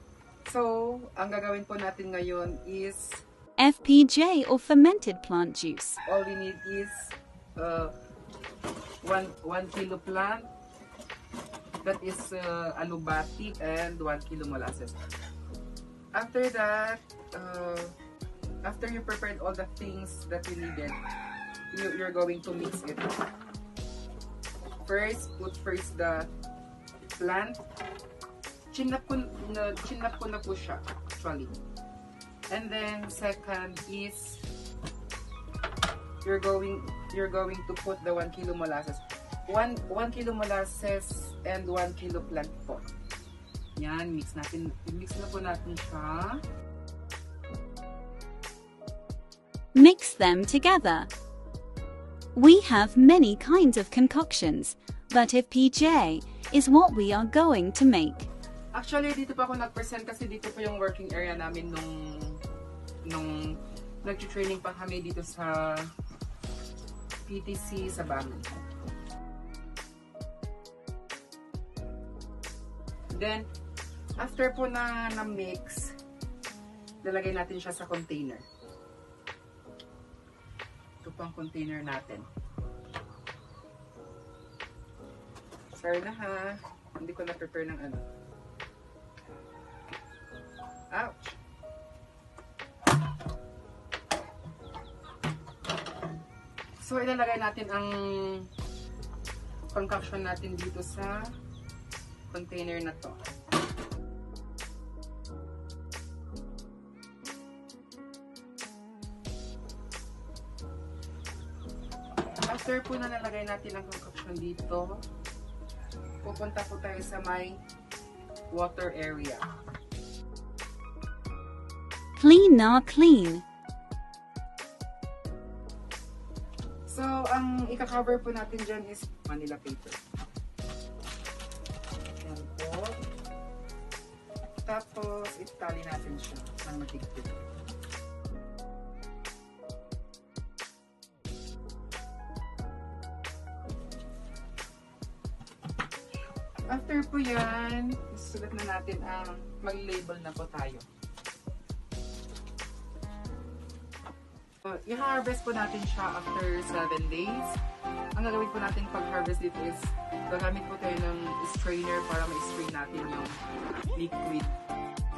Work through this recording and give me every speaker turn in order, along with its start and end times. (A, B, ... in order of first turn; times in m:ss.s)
0:00.4-0:03.2 A
0:03.6-0:06.0 B
0:06.1-0:07.9 A
0:09.0-0:10.5 A
0:11.8-0:15.0 A
0:16.1-0:17.9 A
0:18.6-0:21.0 A
0:21.7-0:23.2 A
0:24.8-0:26.3 A
0:27.2-0:27.6 A
0:28.7-0:31.5 A
0:32.5-0:34.5 A
0:36.2-0:42.9 A
0:43.8-0:46.4 A
0:49.7-0:51.1 B
0:52.4-0:58.3 B
0:58.7-1:02.4 A
1:03.0-1:05.9 A
1:07.3-1:08.5 A
1:13.1-1:13.5 A
1:14.2-1:16.0 A
1:17.0-1:18.4 A
1:21.0-1:22.3 A
1:25.7-1:28.0 A
1:30.9-1:31.4 A
1:36.8-1:38.5 A
1:39.7-1:41.3 A
1:42.3-1:43.2 A
1:52.4-1:55.0 A
1:56.2-1:57.6 A
1:58.5-1:59.4 A
2:02.2-2:03.4 B
2:06.9-2:10.0 A
2:12.2-2:13.0 A
2:14.6-2:17.4 A
2:26.7-2:30.8 A
2:34.6-2:37.6 A
2:38.2-2:43.4 A
2:44.0-2:44.6 A